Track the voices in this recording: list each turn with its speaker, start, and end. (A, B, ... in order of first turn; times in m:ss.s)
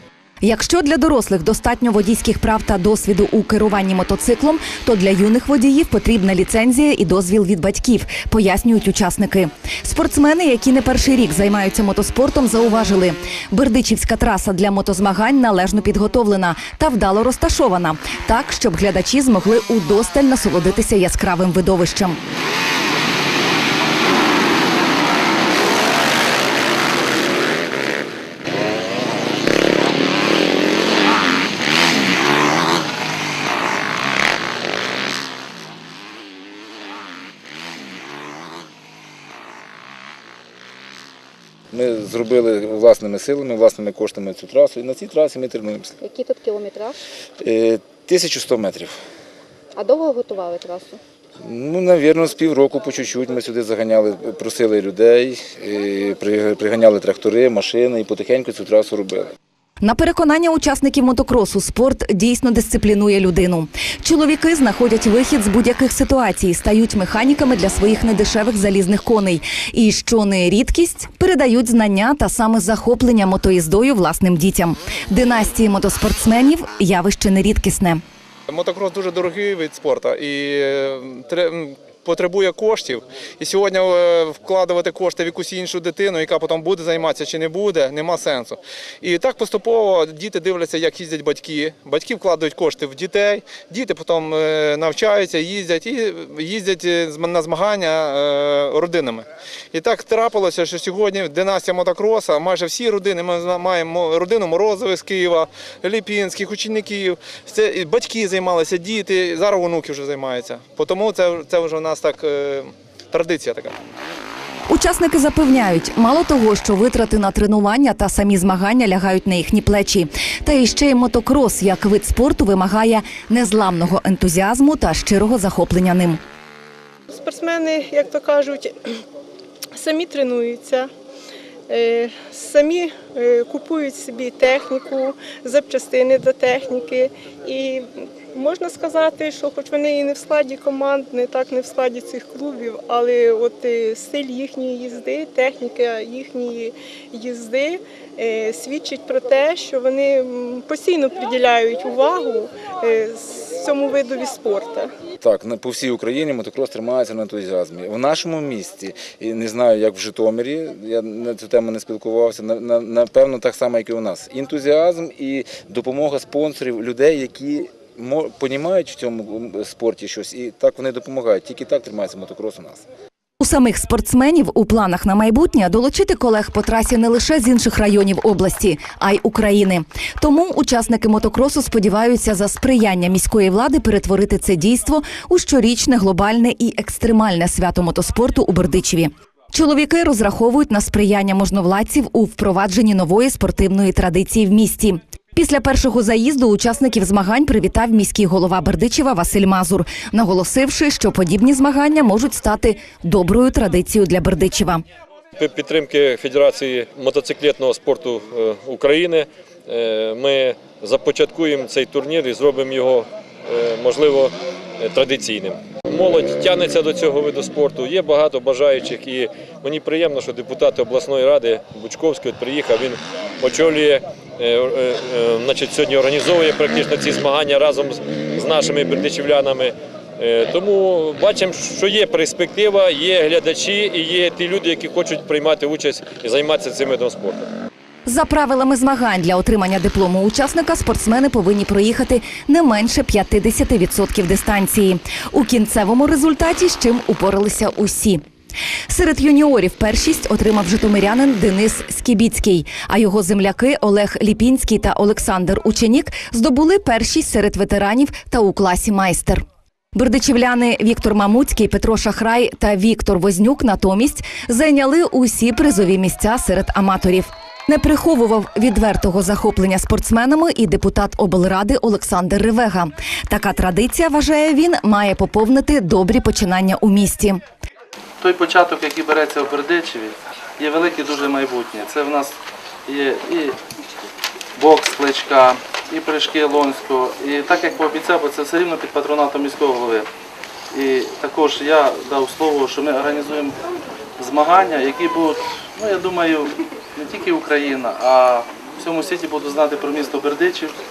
0:00.4-0:22.2 A
0:41.7-0:46.0 B
0:46.0-0:47.0 C
0:47.4-0:49.0 B
0:49.8-0:51.0 C
0:51.4-0:59.3 B
0:59.8-1:18.0 A
1:18.5-1:53.8 D
1:54.7-2:06.2 A
2:07.1-2:08.7 E
2:09.7-2:10.9 E
2:11.7-2:34.9 E
2:35.2-2:52.8 B
2:53.4-3:24.8 A
3:25.4-3:57.5 F
3:58.0-4:08.2 A
4:08.9-4:19.4 A
4:19.9-4:37.4 A
4:38.2-4:42.3 G
4:42.9-4:43.6 G
4:44.6-4:50.1 G
4:50.7-4:53.6 G
4:54.2-5:00.7 G